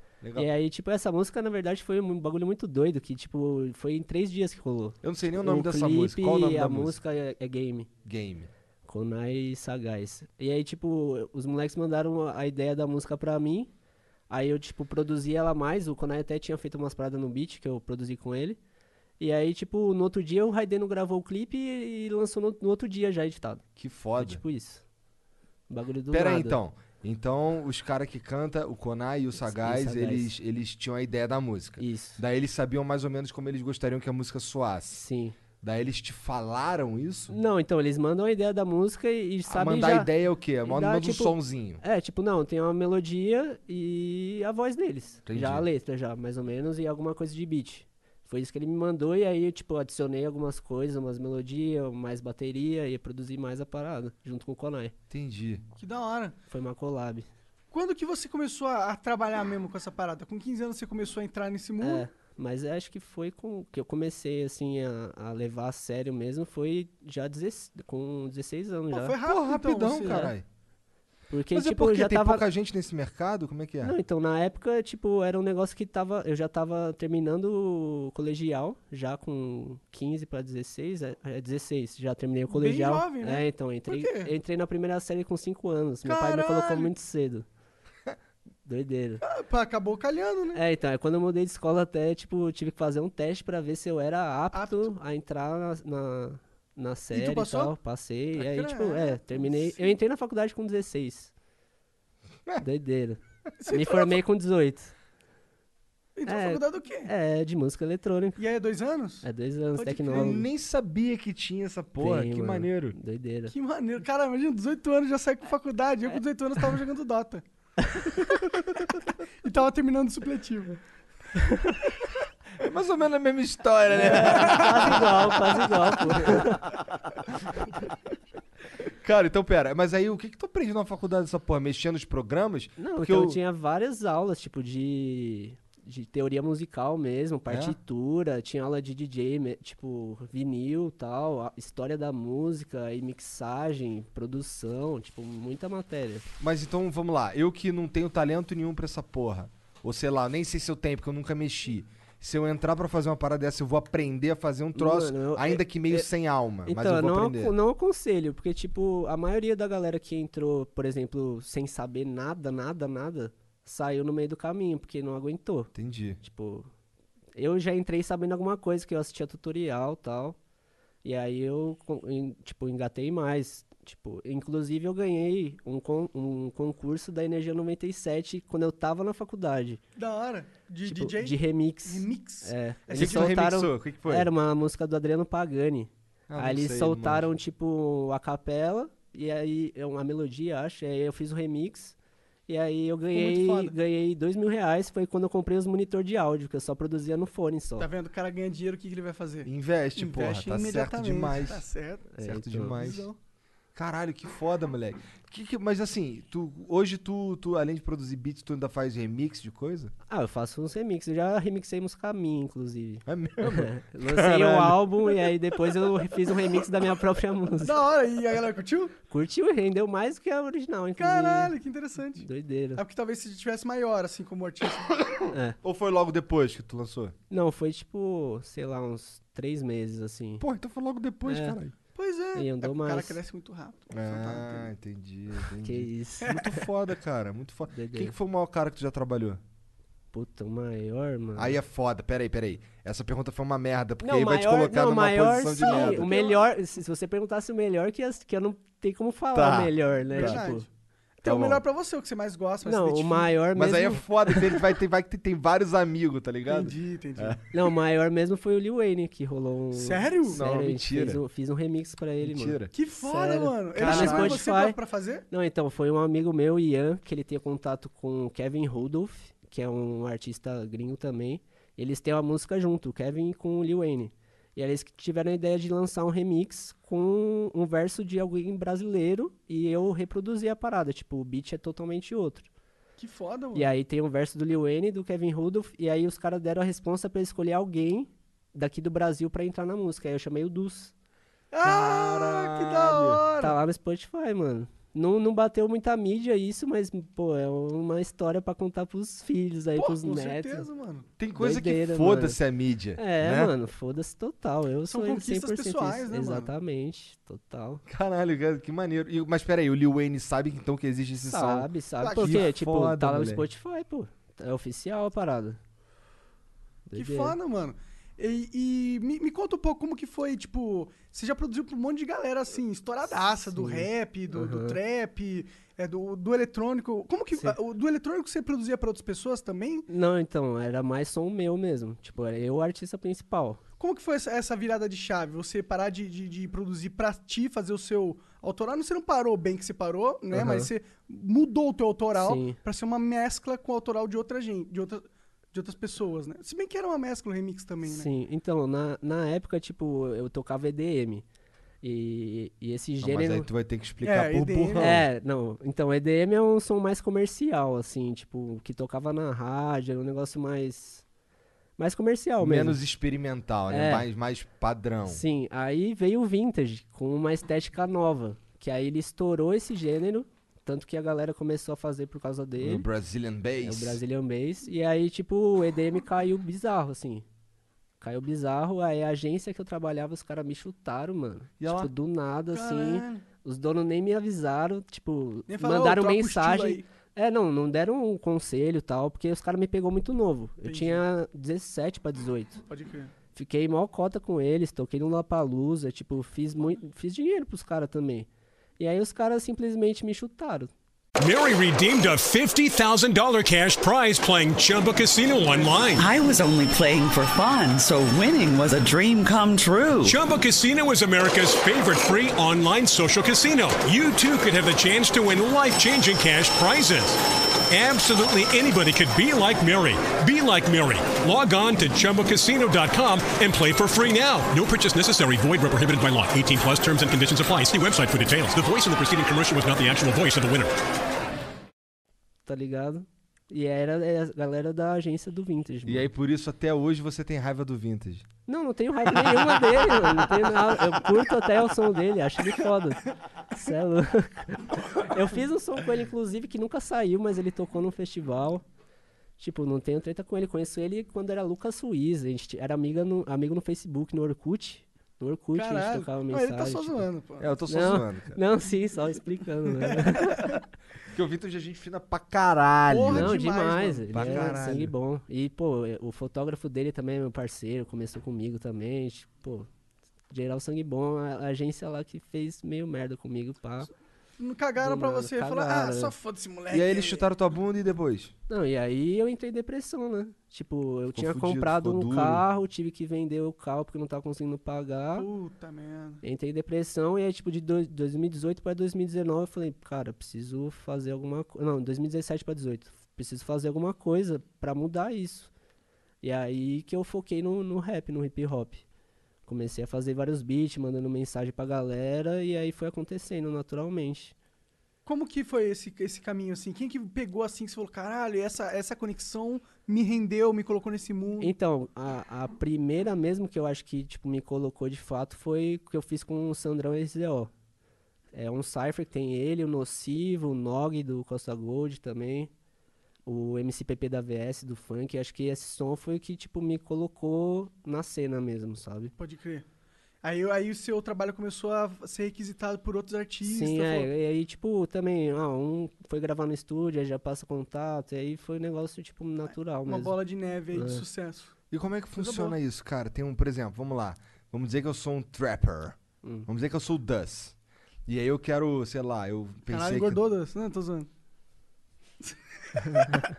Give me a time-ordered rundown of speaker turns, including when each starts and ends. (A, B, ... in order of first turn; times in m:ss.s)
0:00.2-0:00.5 A
0:00.4-0:07.9 B
0:05.0-0:07.0 A
0:08.0-0:08.5 A
0:08.8-0:13.7 B
0:14.3-0:18.6 B
0:19.2-0:23.6 B
0:23.8-0:24.4 A
0:24.2-0:24.8 B
0:25.7-0:26.6 B
0:26.1-0:35.0 A
0:29.4-0:30.3 B
0:31.8-0:32.2 B
0:34.9-0:35.4 B
0:35.6-0:37.3 A
0:37.3-0:40.1 B
0:39.5-0:41.8 A
0:40.6-0:54.9 B
0:45.2-0:45.7 A
0:55.1-0:55.6 A
0:55.8-0:56.4 C
0:56.5-0:57.3 B
0:57.7-1:02.0 C
1:01.8-1:09.1 B
1:08.9-1:10.3 C
1:09.2-1:10.4 A
1:10.0-1:10.3 B
1:11.3-1:12.4 B
1:11.5-1:14.0 A
1:13.8-1:27.4 B
1:22.5-1:24.3 C
1:26.0-1:26.9 C
1:28.6-1:29.2 B
1:29.2-1:30.6 C
1:30.5-1:41.3 B
1:34.5-1:34.9 C
1:37.1-1:37.8 C
1:38.4-1:39.9 C
1:42.6-1:44.9 B
1:43.6-1:44.2 C
1:46.2-1:47.1 C
1:46.2-1:48.4 B
1:48.4-1:50.4 C
1:49.2-1:50.4 B
1:50.1-1:53.0 A
1:52.0-1:53.5 B
1:53.5-1:57.4 C
1:57.9-1:58.2 B
1:59.4-2:00.8 C
2:01.4-2:01.7 B
2:02.6-2:06.5 A
2:04.0-2:06.6 B
2:04.1-2:04.6 C
2:09.0-2:13.4 A
2:12.8-2:26.3 B
2:17.5-2:17.8 A
2:26.4-2:37.5 A
2:34.7-2:36.1 B
2:36.6-2:46.7 B
2:45.7-2:46.2 A
2:47.4-2:50.4 B
2:51.0-2:59.8 B
3:00.0-3:03.5 C
3:00.8-3:11.9 B
3:03.0-3:04.3 A
3:06.3-3:07.3 A
3:12.5-3:17.9 B
3:13.1-3:13.7 C
3:17.8-3:22.1 C
3:19.4-3:21.6 A
3:22.1-3:22.9 B
3:22.2-3:23.1 A
3:22.7-3:23.2 C
3:23.7-3:29.9 A
3:30.1-3:37.8 B
3:33.0-3:35.1 A
3:37.6-3:38.9 C
3:39.1-3:41.5 B
3:41.0-3:45.0 C
3:42.2-3:42.8 B
3:45.3-3:45.6 B
3:45.6-3:47.1 A
3:47.3-3:50.4 B
3:50.4-3:51.7 A
3:51.3-3:51.6 B
3:51.9-3:54.7 C
3:52.3-3:53.2 B
3:53.9-3:59.4 A
3:55.6-3:56.5 B
3:57.7-3:58.1 B
4:00.1-4:01.6 B
4:01.4-4:06.3 A
4:04.0-4:10.6 B
4:05.6-4:06.5 C
4:09.3-4:10.4 A
4:10.1-4:13.4 C
4:11.2-4:11.6 A
4:12.6-4:14.6 B
4:13.5-4:17.4 A
4:16.5-4:17.4 C
4:17.5-4:24.8 B
4:19.7-4:20.4 C
4:20.3-4:21.2 A
4:22.2-4:22.7 A
4:22.7-4:25.2 C
4:23.8-4:24.4 A
4:25.3-4:42.5 B
4:43.0-4:43.7 C
4:43.5-4:50.9 B
4:51.5-4:53.6 C
4:51.6-4:53.2 A
4:53.4-5:00.6 B
4:59.8-5:01.1 C
5:01.2-5:03.5 A
5:01.4-5:02.4 B
5:03.0-5:07.8 B
5:04.9-5:06.5 C
5:07.9-5:13.5 A
5:11.2-5:15.6 B
5:12.0-5:12.5 C
5:16.9-5:17.4 B
5:16.9-5:29.9 C
5:23.5-5:24.8 B
5:29.9-5:33.6 B
5:33.8-5:48.1 C
5:40.3-5:40.7 B
5:42.1-5:42.6 B
5:47.8-5:51.2 B
5:51.8-5:53.5 B
5:53.0-5:55.1 A
5:54.0-5:54.9 C
5:54.8-6:01.0 B
6:01.8-6:02.8 B
6:02.4-6:05.2 A
6:03.7-6:04.1 B
6:05.0-6:12.9 B
6:12.6-6:14.0 A
6:13.6-6:17.2 B
6:18.0-6:32.6 B
6:21.6-6:21.9 A
6:22.5-6:23.2 C
6:25.5-6:26.8 C
6:30.6-6:31.0 C
6:32.7-6:33.1 C
6:33.3-6:38.3 B
6:38.8-6:40.7 B
6:41.2-6:46.1 D
6:45.9-6:50.2 E
6:50.0-6:57.2 D
6:57.7-7:10.7 D
7:12.4-7:16.1 B
7:15.8-7:18.3 A
7:18.5-7:28.6 B
7:29.4-7:37.0 B
7:35.5-7:37.6 C
7:37.4-7:38.4 A
7:37.7-7:40.6 B
7:39.8-7:40.6 C
7:41.1-7:43.4 A
7:42.9-7:44.6 C
7:43.1-7:49.7 B
7:44.1-7:44.9 A
7:50.3-7:53.9 B
7:54.4-7:57.3 C
7:54.8-7:56.1 B
7:56.7-7:58.3 A
7:58.5-8:05.3 B
8:01.1-8:02.4 A
8:05.2-8:06.2 C
8:06.2-8:15.5 B
8:16.2-8:18.8 B
8:19.5-8:24.3 B
8:25.0-8:31.5 C
8:31.4-8:37.5 B
8:38.3-8:42.5 B
8:43.2-8:49.1 B
8:49.2-8:49.6 C
8:50.2-8:54.1 C
8:53.4-9:00.2 B
8:59.8-9:01.5 C
9:00.7-9:01.0 B
9:01.7-9:07.5 A
9:02.2-9:02.6 C
9:06.2-9:06.5 B
9:08.0-9:10.2 A
9:09.7-9:11.1 C